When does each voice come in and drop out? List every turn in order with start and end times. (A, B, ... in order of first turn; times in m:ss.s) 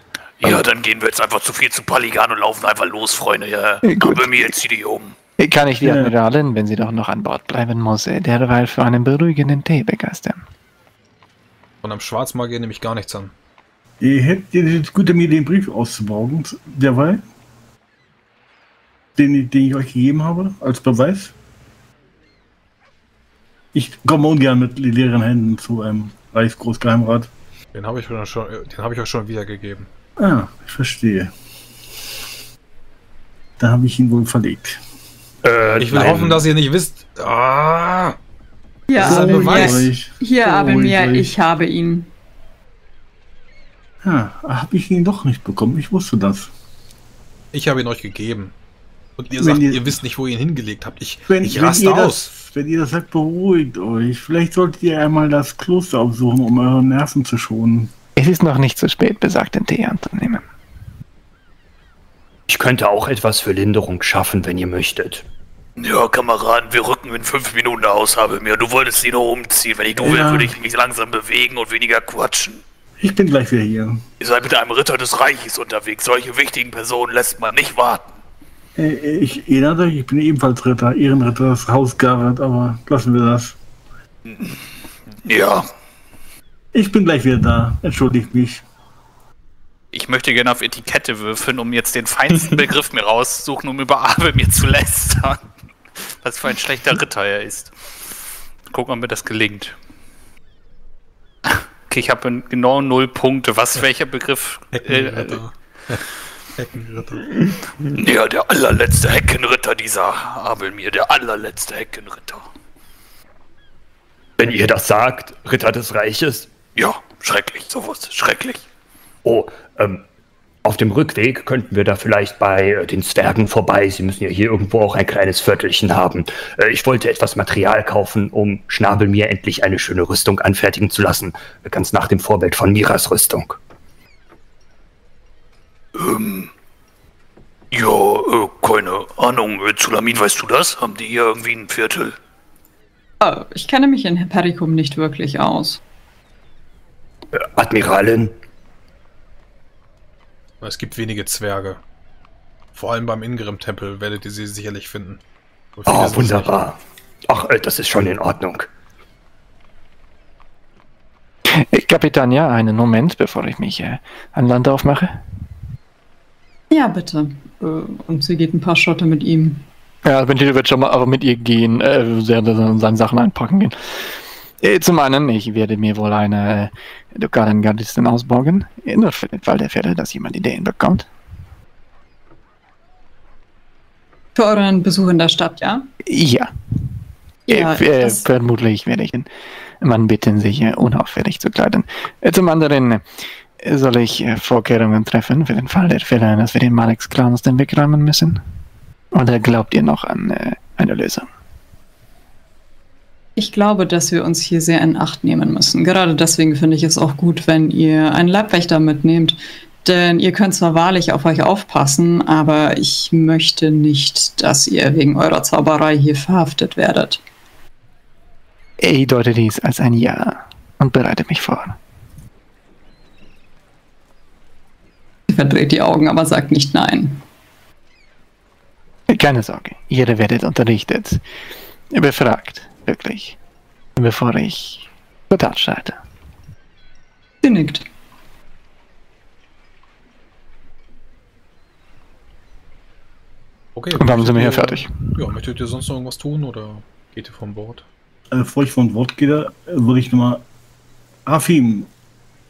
0:00.4-0:05.2 A
0:03.8-0:04.6 B
0:05.4-0:10.4 B
0:05.8-0:06.1 C
0:11.8-0:13.3 D
0:14.0-0:17.2 C
0:19.2-0:21.4 C
0:23.7-0:27.3 C
0:27.7-0:29.9 D
0:30.2-0:31.3 C
0:33.6-0:34.8 C
0:35.4-0:36.4 E
0:35.8-0:38.2 D
0:38.9-0:42.1 F
0:38.9-0:39.9 D
0:39.0-0:41.4 C
0:44.0-0:46.5 C
0:47.5-0:48.5 D
0:49.2-0:52.3 D
0:49.4-0:50.0 C
0:51.3-0:57.9 C
0:58.2-1:00.4 B
1:02.5-1:05.2 E
1:05.8-1:12.6 A
1:10.0-1:10.5 C
1:13.0-1:14.0 C
1:14.2-1:18.1 A
1:18.8-1:23.6 C
1:24.3-1:24.6 A
1:25.2-1:25.7 A
1:26.7-1:28.6 C
1:29.9-1:35.4 G
1:36.0-1:37.7 G
1:38.7-1:39.8 G
1:41.5-1:45.4 G
1:44.7-1:46.0 D
1:46.6-1:47.3 D
1:47.2-1:47.5 E
1:48.0-1:52.5 A
1:54.4-1:56.5 E
1:56.8-1:58.6 A
1:59.2-2:00.0 E
2:00.6-2:13.6 E
2:16.0-2:16.5 A
2:17.7-2:22.2 A
2:23.2-2:25.8 F
2:27.3-2:28.4 E
2:30.6-2:31.8 D
2:32.7-2:35.2 D
2:35.8-2:36.6 D
2:35.9-2:36.8 E
2:37.3-2:38.7 E
2:41.6-2:45.2 B
2:46.7-2:49.6 F
2:50.0-2:53.8 B
2:54.6-3:01.1 B
3:04.4-3:05.9 F
3:06.1-3:06.5 B
3:07.5-3:08.3 F
3:07.5-3:09.3 B
3:09.8-3:13.0 B
3:13.6-3:18.4 B
3:19.1-3:21.3 B
3:23.4-3:37.2 F
3:38.8-3:41.8 B
3:45.3-3:47.2 F
3:49.1-3:51.2 B
3:51.9-3:53.4 B
3:54.0-3:56.0 B
3:57.4-3:57.9 F
4:03.8-4:07.9 D
4:04.0-4:05.2 B
4:08.3-4:10.4 C
4:11.3-4:11.9 C